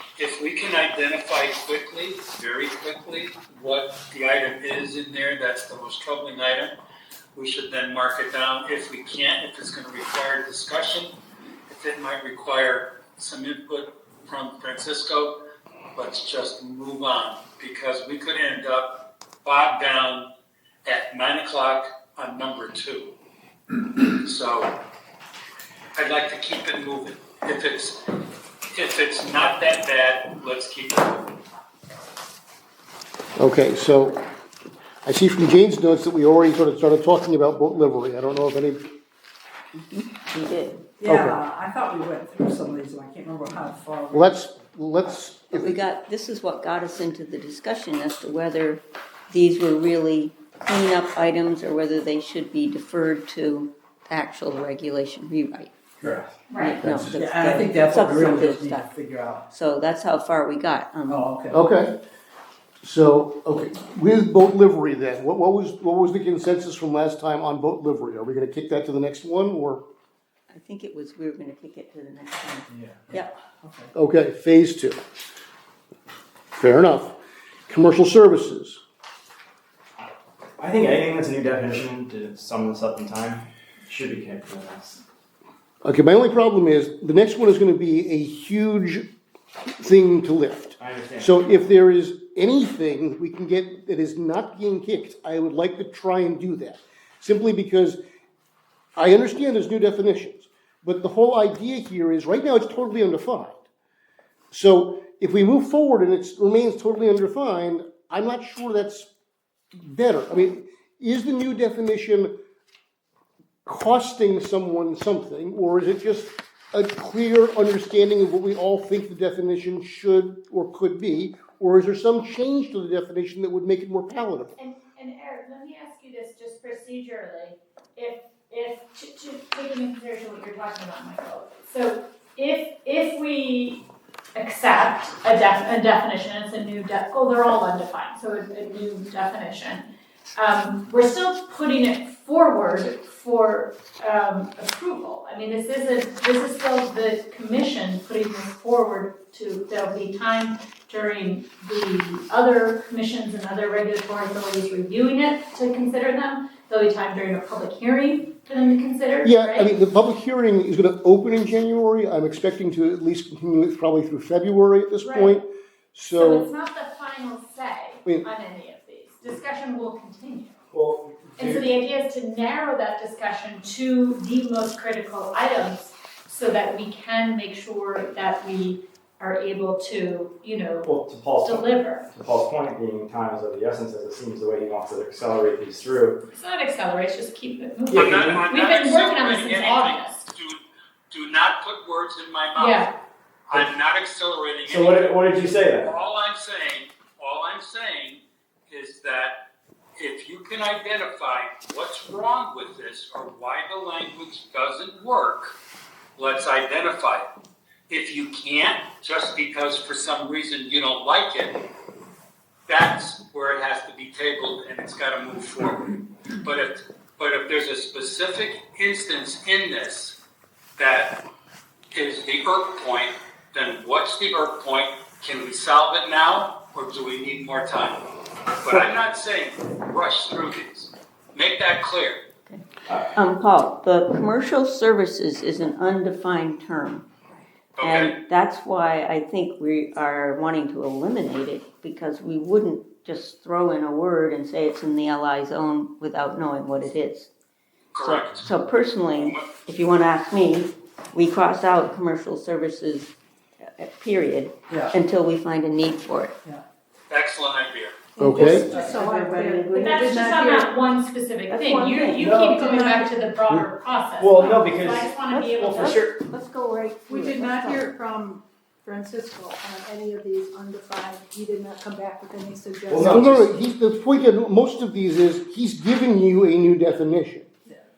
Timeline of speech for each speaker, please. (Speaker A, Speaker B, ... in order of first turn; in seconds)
Speaker A: 0.2-6.7, 7.3-11.1, 11.7-15.3, 15.9-20.3, 20.9-23.1, 24.0-24.7, 25.9-28.0, 28.7-31.3, 187.9-192.9, 193.5-199.3, 200.0-205.6, 206.2-207.3, 207.9-211.6, 212.7-220.2, 220.8-221.2, 221.9-228.0, 228.6-232.2, 237.8-238.1, 247.9-248.5, 249.2-249.5, 257.1-258.0
Speaker B: 33.4-34.2, 35.0-38.9, 41.0-41.4, 44.1-45.8, 56.8-57.2, 61.5-62.0, 62.8-69.8, 73.9-75.0, 76.5-77.2, 77.7-78.8, 85.8-89.0, 89.7-98.0, 99.0-103.6, 104.5-109.1, 109.7-112.3, 113.7-124.5, 159.2-166.5, 258.2-258.7, 273.0-277.5
Speaker C: 39.7-40.8, 45.5-55.7, 56.6-58.9, 59.5-61.3, 70.5-73.3, 232.5-237.1, 237.8-247.3, 248.0-256.3, 258.2-260.2, 261.5-262.3, 265.6-267.8
Speaker D: 41.0-44.4, 56.0-56.3, 57.1-59.5, 61.1-61.5, 72.7-73.9, 254.7-254.9, 258.4-260.7, 262.2-263.1, 273.1-273.5
Speaker E: 56.5-56.8, 124.6-133.8, 134.3-159.7, 165.0-165.4, 166.1-170.6, 171.4-180.9, 181.4-182.1, 186.3-190.2, 192.6-192.9, 259.8-266.0
Speaker F: 80.6-85.0, 90.8-91.3, 170.7-171.7, 180.8-186.2, 187.9-188.5, 194.7-195.9, 264.2-266.1, 272.9-273.5
Speaker G: 258.8-259.8, 267.1-267.8, 269.7-270.1, 270.9-271.7, 272.5-273.1